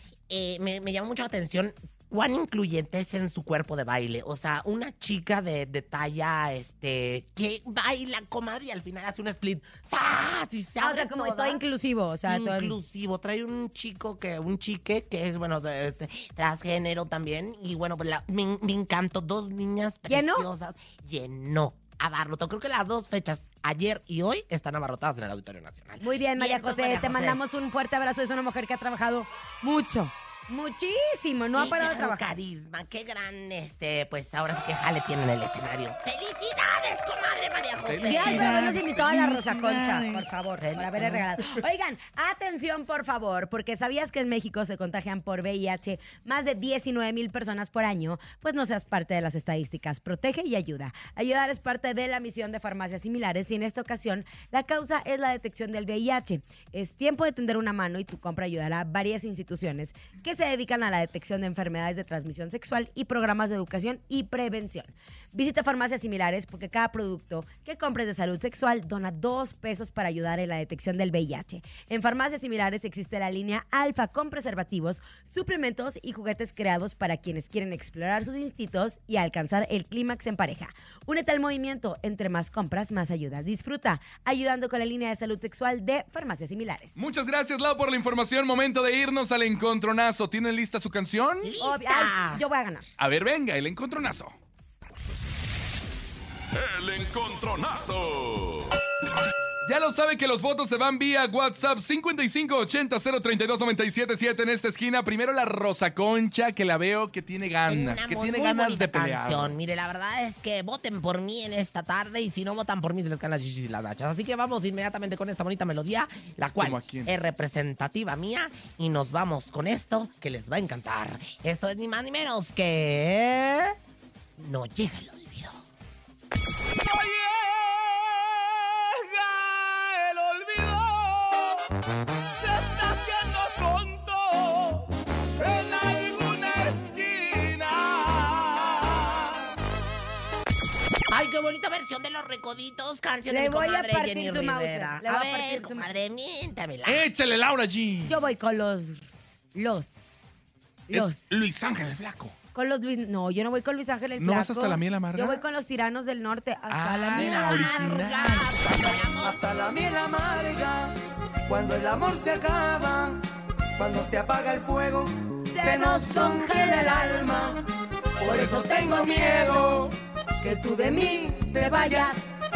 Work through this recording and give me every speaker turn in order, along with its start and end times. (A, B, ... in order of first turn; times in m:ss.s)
0:00.3-0:11.6 A
0:10.8-0:12.8 B
0:12.3-0:27.4 A
0:20.1-0:20.5 B
0:26.0-0:32.4 B
0:31.5-0:38.6 A
0:37.8-0:40.1 C
0:38.0-1:27.0 B
0:40.6-0:41.3 A
1:27.0-1:31.5 C
1:31.4-1:32.4 A
1:31.6-1:32.9 B
1:33.0-1:34.4 C
1:36.5-1:38.7 D
1:39.6-1:49.6 C
1:47.7-2:03.8 A
1:56.6-1:57.1 C
2:04.4-2:05.6 A
2:06.8-2:11.6 E
2:12.4-2:14.8 E
2:15.4-2:19.3 E
2:21.1-2:27.1 A
2:23.3-2:25.9 B
2:26.8-2:28.2 C
2:28.1-2:30.0 B
2:30.9-2:31.3 B
2:30.9-2:32.4 C
2:32.5-2:37.7 B
2:34.2-2:35.4 C
2:36.7-2:39.0 C
2:37.1-2:39.4 A
2:39.1-2:43.2 E
2:43.8-2:47.6 E
2:45.5-2:46.9 B
2:48.2-2:52.3 E
2:51.7-2:52.2 B